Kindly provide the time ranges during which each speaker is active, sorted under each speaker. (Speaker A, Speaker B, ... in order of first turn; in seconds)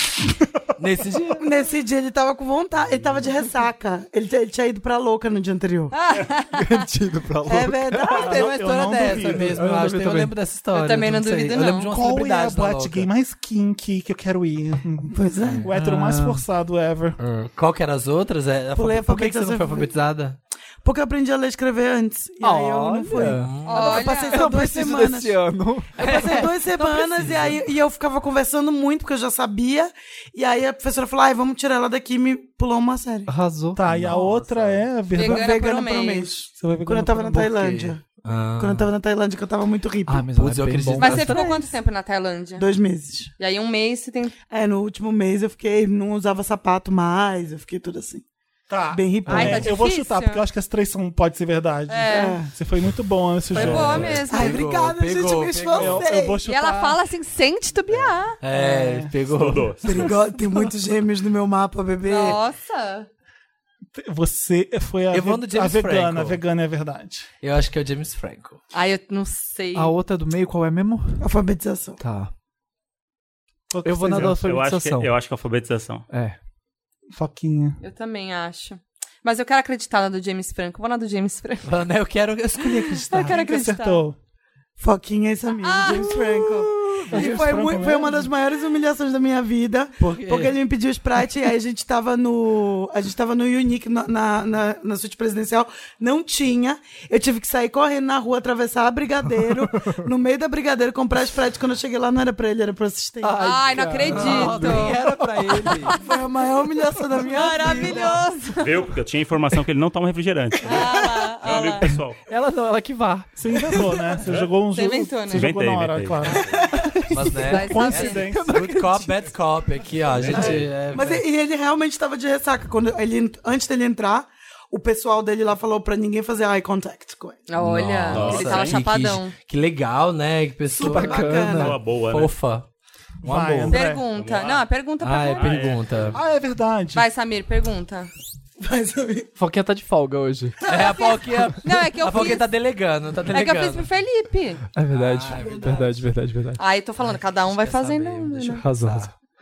Speaker A: 0.8-1.4, 8.3-13.1, 17.2-20.4, 23.1-24.1, 27.2-27.5, 33.9-34.8, 37.6-38.9, 40.4-41.5, 53.5-56.0, 58.4-60.1, 65.1-66.4, 67.4-68.6, 81.6-83.3, 90.0-90.6, 104.0-106.0, 117.1-121.2, 127.6-132.7, 133.2-133.8, 135.0-136.2, 140.6-143.9, 144.9-145.9, 147.1-149.1
Speaker B: 1.4-5.9, 7.5-9.2, 15.1-15.7, 18.7-19.9, 20.8-25.4, 25.9-33.3, 35.1-38.0, 38.6-40.3, 42.6-43.3, 44.5-48.2, 48.9-49.7, 52.1-52.5, 54.3-56.4, 59.8-62.4, 71.2-72.0, 84.8-103.4, 106.0-108.2, 113.5-114.2, 120.3-127.4, 130.8-131.8, 138.6-139.3, 140.6-141.1, 145.4-145.9
Speaker C: 5.9-6.8, 10.7-11.9, 23.6-24.4, 35.1-36.3, 41.0-42.6, 43.4-44.3, 49.3-50.4, 51.9-52.4, 53.5-54.6, 56.4-58.3, 62.0-63.1, 68.7-69.9, 77.8-81.7, 82.8-84.0, 85.6-86.4, 103.4-105.0, 107.2-108.8, 110.6-111.9, 114.7-115.5, 117.4-118.2, 127.5-129.3, 133.7-135.6, 136.9-138.1, 141.6-142.5, 143.3-144.6, 146.6-148.6
Speaker D: 6.5-8.4, 9.1-10.3, 15.7-16.4, 22.4-27.5, 33.3-33.8, 40.1-41.5, 69.7-71.2, 72.0-72.3, 73.8-75.1, 76.1-76.4, 103.2-105.9, 112.3-113.8, 116.8-119.3, 130.8-131.8, 139.4-140.6, 144.7-146.6, 148.6-149.1
Speaker E: 8.2-9.6, 11.9-17.2, 33.8-35.6, 36.6-37.8, 48.7-54.1, 55.7-57.0, 58.5-59.1, 63.9-67.3, 73.7-74.4, 77.1-77.8, 83.1-84.2, 87.0-88.3, 113.4-116.6, 117.5-118.6, 133.2-134.0, 136.1-137.1
Speaker F: 53.7-54.1, 59.3-60.1, 74.2-76.0, 108.6-112.2, 115.3-116.5, 120.3-120.6, 128.1-128.8, 131.4-132.3, 134.1-134.6, 135.3-136.1